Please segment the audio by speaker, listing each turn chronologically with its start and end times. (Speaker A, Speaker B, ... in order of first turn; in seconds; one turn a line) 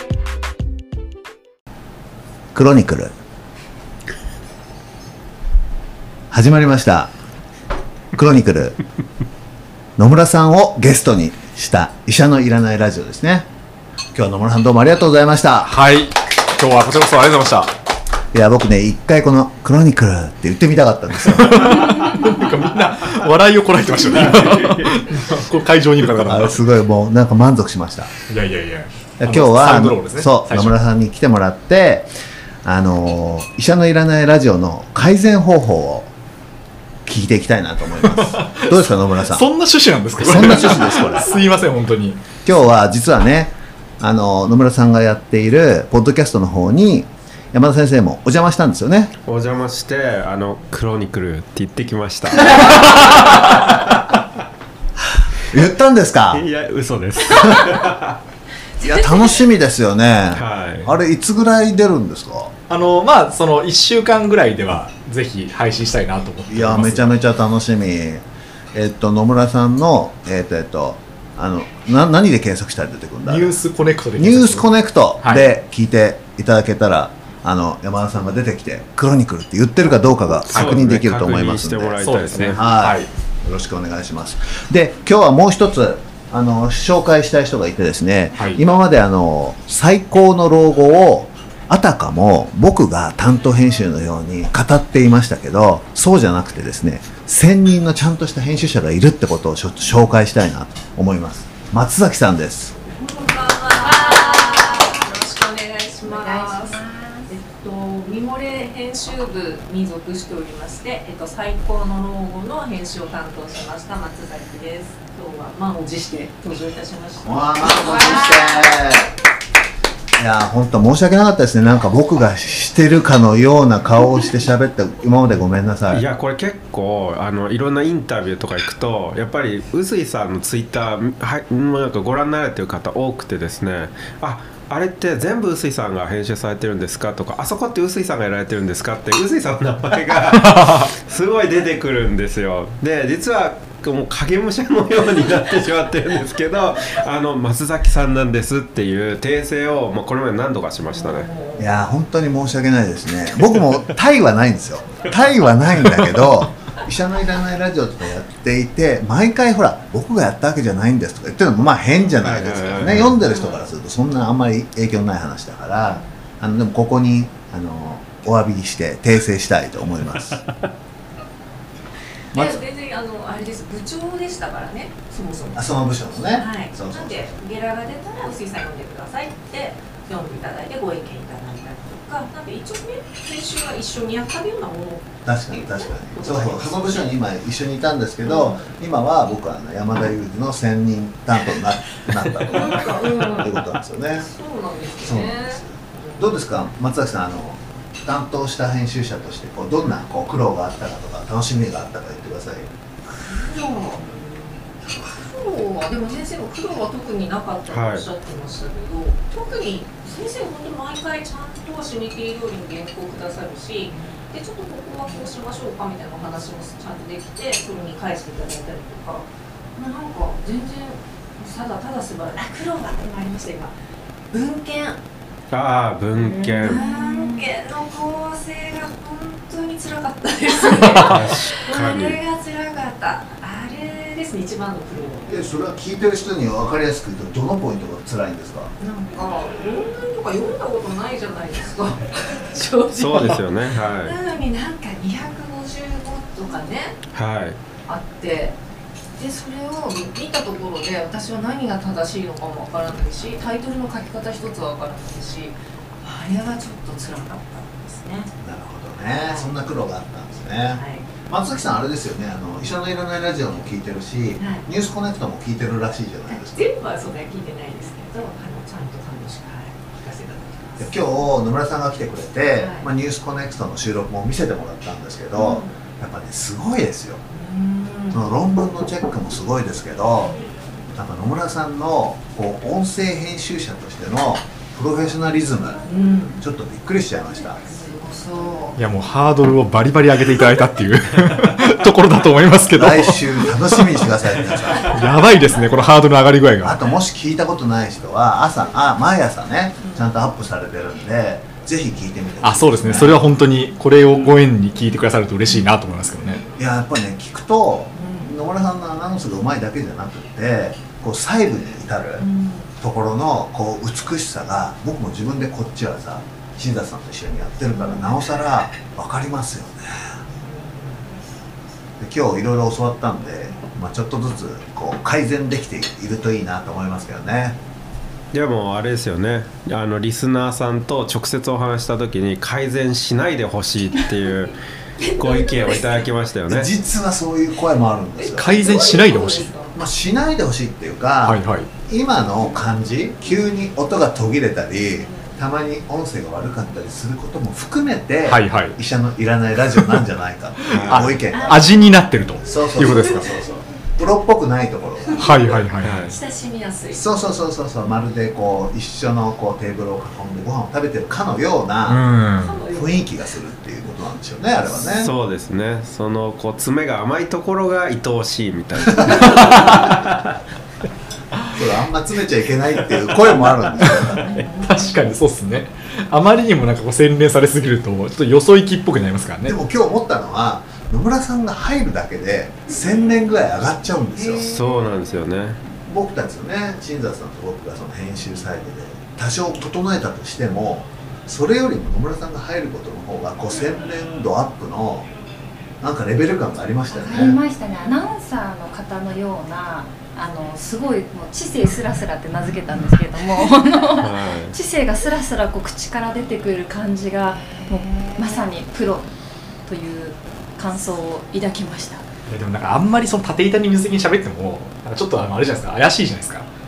Speaker A: 2.5-3.1
Speaker A: 6.3-7.1
Speaker A: 8.2-8.8
Speaker A: 10.0-13.5
Speaker A: 14.2-15.7
Speaker B: 15.7-17.7
Speaker A: 18.3-21.7
Speaker B: 21.2-26.6
Speaker A: 26.2-28.1
Speaker B: 28.3-30.8
Speaker A: 29.2-32.1
Speaker A: 32.6-36.1
Speaker A: 37.1-39.5
Speaker B: 38.0-42.2
Speaker A: 40.2-41.4
Speaker A: 42.4-49.1
Speaker C: 49.2-54.2
Speaker A: 55.5-56.4
Speaker C: 56.3-58.2
Speaker D: 58.8-59.4
Speaker A: 58.8-62.5
Speaker C: 60.3-60.9
Speaker B: 62.7-67.1
Speaker A: 66.5-73.6
Speaker B: 73.3-74.7
Speaker A: 74.2-102.8
Speaker B: 75.2-75.5
Speaker C: 80.5-82.6
Speaker B: 80.5-80.8
Speaker B: 82.0-83.1
Speaker B: 88.3-88.6
Speaker D: 102.9-118.8
Speaker E: 103.8-104.9
Speaker E: 106.0-107.3
Speaker A: 117.2-119.1
Speaker A: 120.2-126.0
Speaker C: 125.9-151.3
Speaker B: 140.3-140.9
Speaker D: 150.9-151.6
Speaker A: 151.6-170.4
Speaker C: 162.2-163.2
Speaker D: 163.2-163.6
Speaker D: 165.8-166.1
Speaker D: 172.3-187.1
Speaker A: 172.3-172.6
Speaker A: 175.6-177.3
Speaker A: 185.2-194.3
Speaker D: 188.2-188.7
Speaker D: 192.5-193.6
Speaker D: 194.2-196.5
Speaker A: 195.0-202.7
Speaker D: 203.1-223.7
Speaker C: 207.7-208.1
Speaker D: 224.3-225.0
Speaker C: 225.5-226.8
Speaker E: 226.2-227.5
Speaker D: 226.2-235.4
Speaker C: 231.0-232.2
Speaker A: 235.3-238.7
Speaker D: 238.8-243.4
Speaker C: 242.9-244.2
Speaker D: 244.0-247.0
Speaker C: 247.1-247.6
Speaker D: 247.9-248.6
Speaker D: 249.2-258.3
Speaker A: 258.4-266.7
Speaker D: 259.1-259.6
Speaker D: 260.7-261.1
Speaker D: 264.4-264.6
Speaker D: 266.3-271.3
Speaker A: 270.8-277.2
Speaker D: 272.5-272.9
Speaker D: 275.4-275.8
Speaker D: 277.3-278.4
Speaker A: 278.1-280.4
Speaker A: 280.9-285.8
Speaker D: 285.9-286.4
Speaker A: 286.4-287.6
Speaker D: 287.6-288.8
Speaker B: 288.8-294.1
Speaker A: 292.8-295.0
Speaker B: 294.8-296.8
Speaker A: 296.6-303.2
Speaker D: 299.8-300.2
Speaker B: 302.4-306.4
Speaker A: 306.6-312.3
Speaker D: 307.9-308.3
Speaker D: 312.2-312.7
Speaker A: 312.8-320.1
Speaker D: 317.7-318.1
Speaker D: 320.3-321.1
Speaker A: 322.0-327.6
Speaker C: 328.3-334.6
Speaker D: 335.0-336.1
Speaker C: 335.1-336.7
Speaker A: 336.5-338.5
Speaker D: 338.2-339.8
Speaker B: 338.3-339.5
Speaker A: 339.7-351.8
Speaker B: 341.2-341.7
Speaker D: 345.0-345.3
Speaker B: 348.2-348.8
Speaker B: 349.8-350.0
Speaker B: 350.6-353.3
Speaker C: 350.7-351.1
Speaker D: 351.3-352.0
Speaker A: 352.4-355.6
Speaker D: 355.1-357.1
Speaker B: 355.2-356.0
Speaker C: 355.8-356.2
Speaker A: 356.9-362.1
Speaker B: 361.9-362.6
Speaker D: 362.4-363.1
Speaker A: 362.7-365.1
Speaker C: 364.9-370.4
Speaker B: 369.0-369.8
Speaker A: 371.5-374.3
Speaker B: 373.8-379.6
Speaker D: 374.2-374.8
Speaker A: 379.4-384.5
Speaker D: 384.2-384.6
Speaker C: 384.5-385.6
Speaker A: 385.9-395.1
Speaker A: 395.8-397.4
Speaker E: 396.9-409.1
Speaker C: 404.0-404.6
Speaker D: 407.6-408.5
Speaker E: 409.7-412.0
Speaker B: 412.3-416.5